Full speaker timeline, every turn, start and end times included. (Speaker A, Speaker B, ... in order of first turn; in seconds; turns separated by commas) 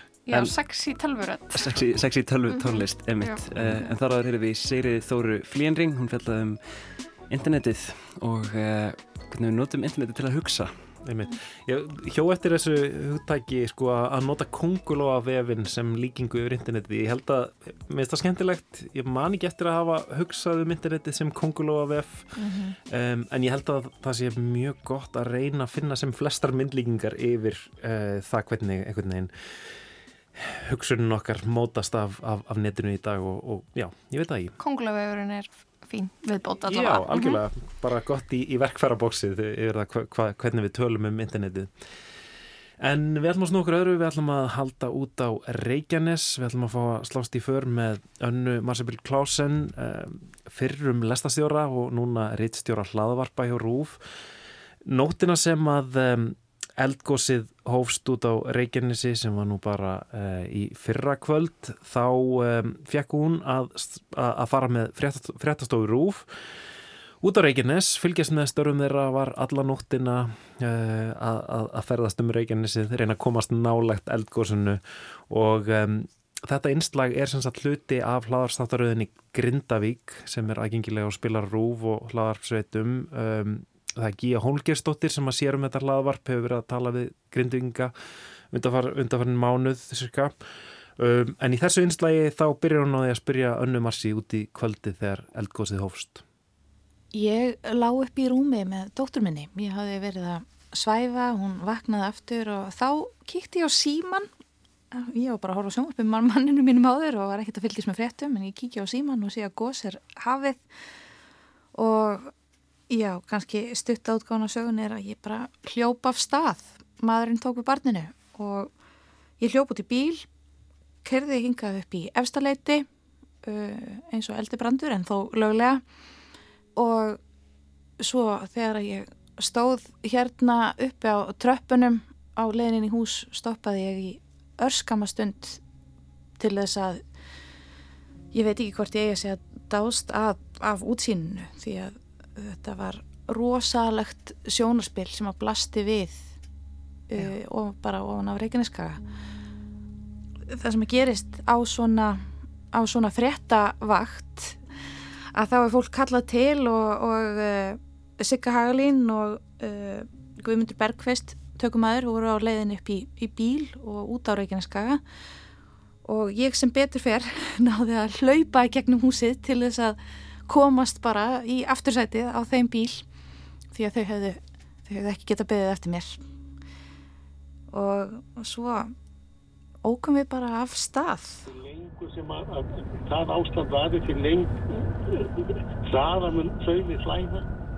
Speaker A: 0.2-1.8, Speaker B: 1.5-10.7, Speaker A: 2.5-3.8, Speaker C: 11.0-34.5, Speaker A: 22.4-22.7, Speaker A: 34.6-37.4, Speaker C: 36.6-42.0, Speaker C: 42.8-54.3, Speaker C: 54.8-66.7, Speaker C: 67.2-87.9, Speaker C: 88.5-90.4, Speaker C: 91.0-96.2, Speaker D: 97.1-104.3, Speaker D: 104.9-110.7, Speaker D: 111.7-112.3, Speaker D: 112.9-118.7, Speaker D: 119.4-120.2, Speaker D: 121.0-122.9, Speaker D: 123.4-125.8, Speaker D: 126.8-127.2, Speaker D: 128.0-135.6, Speaker D: 136.4-137.0, Speaker D: 138.3-146.3, Speaker D: 147.1-149.0, Speaker D: 150.5-154.6, Speaker D: 155.3-165.0, Speaker D: 166.0-173.1, Speaker D: 173.7-176.2, Speaker D: 177.7-178.9, Speaker D: 179.8-181.4, Speaker E: 181.4-187.4